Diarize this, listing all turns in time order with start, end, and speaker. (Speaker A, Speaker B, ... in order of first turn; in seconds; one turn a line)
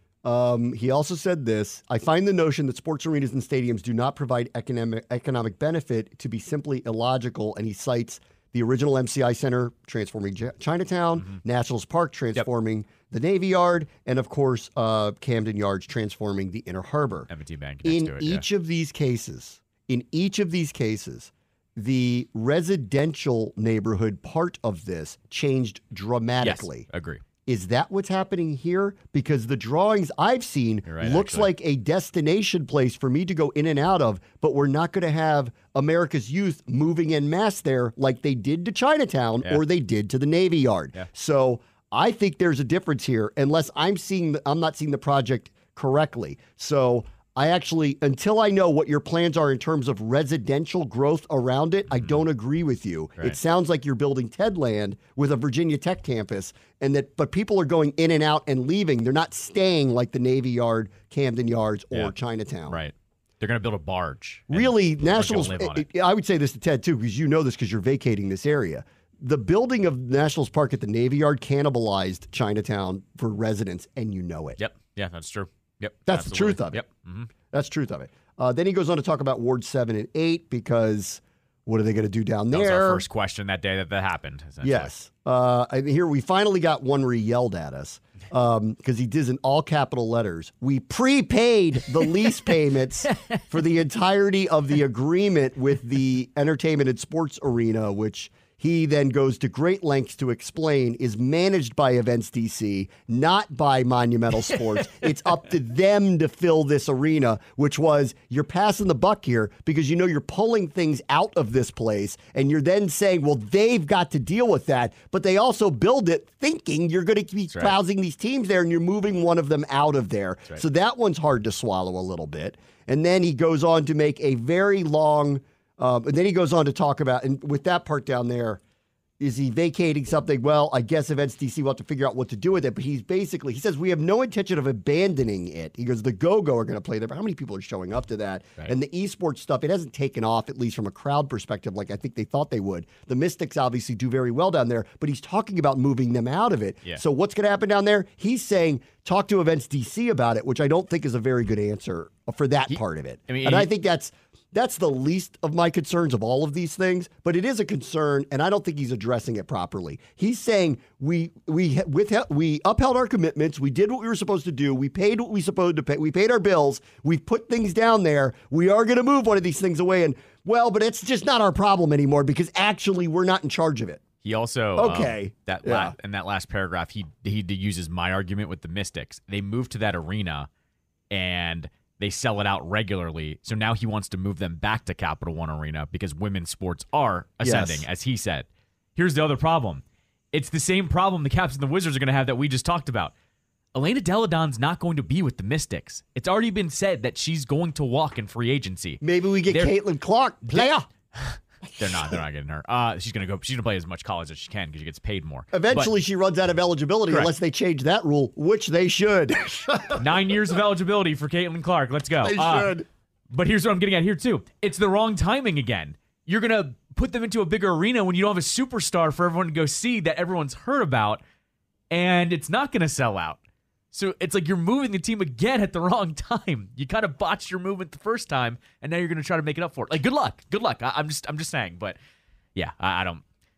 Speaker A: 0.2-17.3
Speaker B: 17.3-18.4
Speaker A: 17.8-26.8
Speaker B: 26.4-27.2
Speaker A: 27.4-62.8
Speaker B: 30.9-31.5
Speaker B: 62.7-65.9
Speaker A: 64.5-74.6
Speaker B: 74.6-77.3
Speaker A: 76.1-76.8
Speaker A: 77.5-83.0
Speaker B: 82.5-84.9
Speaker A: 84.6-128.6
Speaker B: 93.1-93.4
Speaker B: 117.5-117.8
Speaker A: 129.2-174.0
Speaker B: 153.3-153.7
Speaker B: 174.2-180.5
Speaker A: 174.8-175.9
Speaker B: 181.1-193.1
Speaker A: 187.4-187.8
Speaker B: 193.7-199.7
Speaker A: 199.0-200.8
Speaker B: 200.4-205.9
Speaker A: 205.5-210.0
Speaker B: 209.9-212.7
Speaker A: 212.2-212.8
Speaker B: 213.3-221.2
Speaker B: 221.9-223.4
Speaker B: 223.9-232.0
Speaker B: 232.5-233.2